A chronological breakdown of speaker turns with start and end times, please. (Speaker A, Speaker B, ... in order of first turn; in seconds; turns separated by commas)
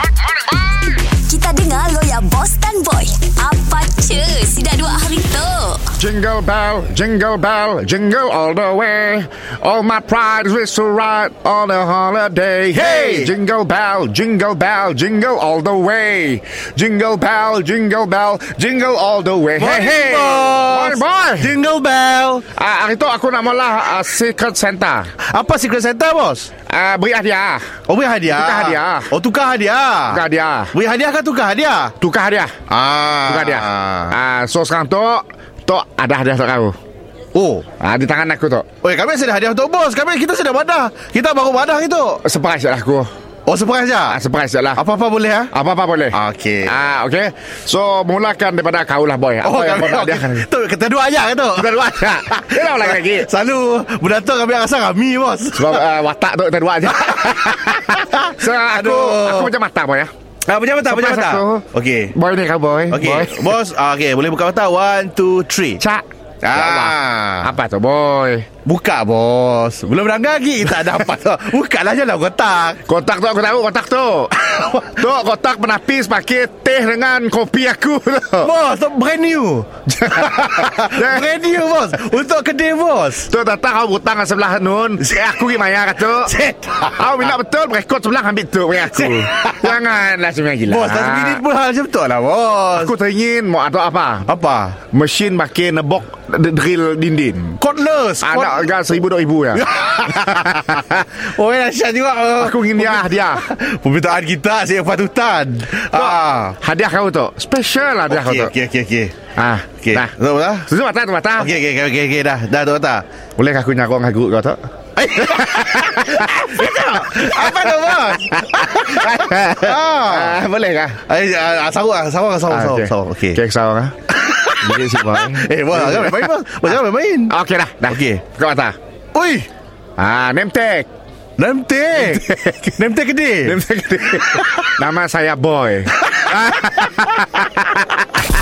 Speaker A: 0.8-5.8, Speaker B: 6.0-21.5, Speaker C: 12.7-13.3, Speaker C: 19.6-22.4, Speaker B: 22.5-25.1, Speaker C: 25.3-26.5, Speaker B: 26.7-27.6, Speaker C: 27.9-31.9, Speaker B: 28.3-29.1, Speaker B: 30.1-30.7, Speaker B: 32.0-32.5, Speaker C: 32.7-34.1, Speaker B: 33.2-36.8, Speaker C: 37.3-37.6, Speaker B: 37.8-38.7, Speaker C: 38.8-42.2, Speaker B: 42.2-43.1, Speaker C: 43.5-44.2, Speaker B: 44.1-44.8, Speaker C: 44.8-45.5, Speaker B: 45.5-50.4, Speaker C: 46.1-46.7, Speaker C: 49.4-55.8, Speaker B: 51.5-53.3, Speaker B: 55.5-60.1, Speaker C: 57.0-59.5, Speaker C: 60.5-62.1, Speaker B: 60.8-63.5, Speaker C: 62.9-65.8, Speaker B: 65.8-68.5, Speaker C: 66.5-67.5, Speaker C: 68.7-72.8, Speaker B: 72.8-78.5, Speaker C: 74.5-74.9, Speaker C: 78.4-83.3, Speaker B: 79.9-81.3, Speaker B: 83.2-86.3, Speaker C: 86.3-87.0, Speaker B: 86.9-91.4, Speaker C: 88.8-89.7, Speaker C: 90.7-92.9, Speaker B: 92.8-94.3, Speaker C: 94.2-94.8, Speaker B: 94.9-97.6, Speaker C: 97.6-98.7, Speaker B: 98.2-100.9, Speaker C: 99.5-106.6, Speaker B: 102.4-103.4, Speaker B: 105.9-108.5, Speaker C: 108.1-109.1, Speaker B: 109.3-110.1, Speaker C: 109.8-110.7, Speaker B: 110.7-111.5, Speaker C: 111.4-113.0, Speaker B: 113.4-114.6, Speaker C: 115.0-120.4, Speaker B: 115.2-121.0, Speaker C: 121.1-123.4, Speaker B: 122.5-124.0, Speaker C: 124.1-127.3, Speaker B: 124.6-126.7, Speaker B: 127.3-128.8, Speaker C: 127.9-128.2, Speaker C: 129.1-129.5, Speaker B: 130.0-130.9, Speaker C: 131.4-132.2, Speaker B: 131.9-132.8, Speaker C: 132.8-133.6, Speaker B: 133.4-138.0, Speaker C: 134.3-134.7, Speaker C: 136.1-137.1